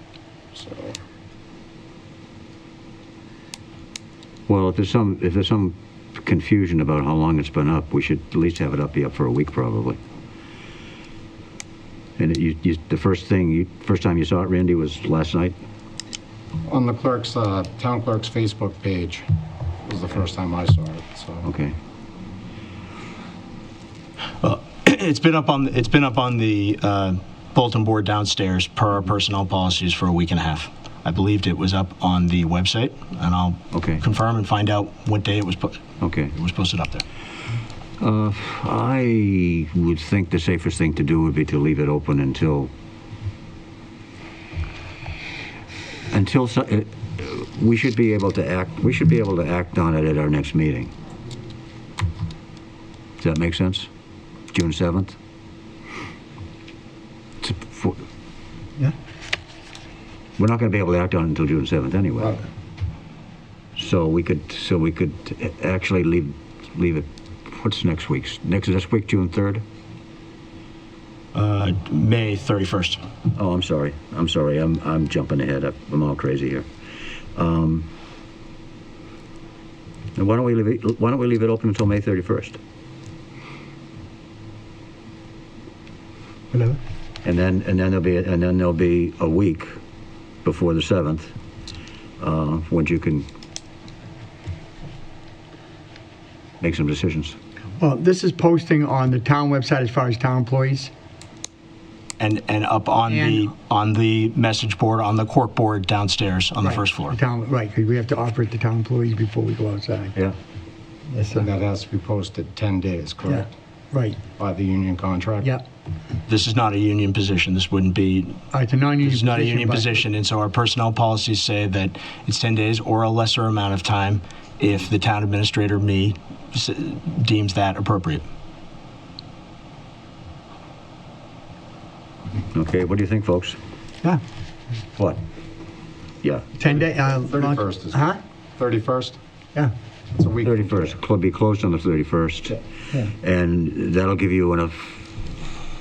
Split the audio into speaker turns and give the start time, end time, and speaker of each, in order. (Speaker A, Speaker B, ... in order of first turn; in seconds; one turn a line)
Speaker A: 0.5-1.0
Speaker B: 4.5-10.0
Speaker B: 12.2-15.6
Speaker A: 16.7-19.3
Speaker A: 19.9-21.5
Speaker B: 21.4-21.8
Speaker C: 24.4-37.0
Speaker B: 33.7-34.0
Speaker B: 36.0-36.3
Speaker B: 38.0-42.7
Speaker B: 46.1-50.9
Speaker B: 53.2-53.9
Speaker B: 54.5-55.2
Speaker B: 57.4-58.0
Speaker B: 60.4-62.4
Speaker B: 63.8-69.6
Speaker C: 71.3-73.0
Speaker B: 73.3-76.7
Speaker B: 77.3-77.9
Speaker B: 80.2-82.6
Speaker D: 86.5-86.8
Speaker B: 87.2-89.8
Speaker B: 90.4-91.3
Speaker B: 92.2-93.3
Speaker B: 96.6-97.4
Speaker D: 97.8-100.9
Speaker C: 102.2-107.2
Speaker D: 106.6-110.1
Speaker D: 111.1-111.5
Speaker A: 111.3-113.5
Speaker D: 113.3-114.2
Speaker A: 114.4-115.5
Speaker C: 116.3-118.5
Speaker D: 118.5-120.0
Speaker C: 119.0-128.3
Speaker B: 132.5-133.6
Speaker D: 136.6-138.2
Speaker A: 137.1-139.2
Speaker A: 140.1-140.9
Speaker B: 140.4-145.1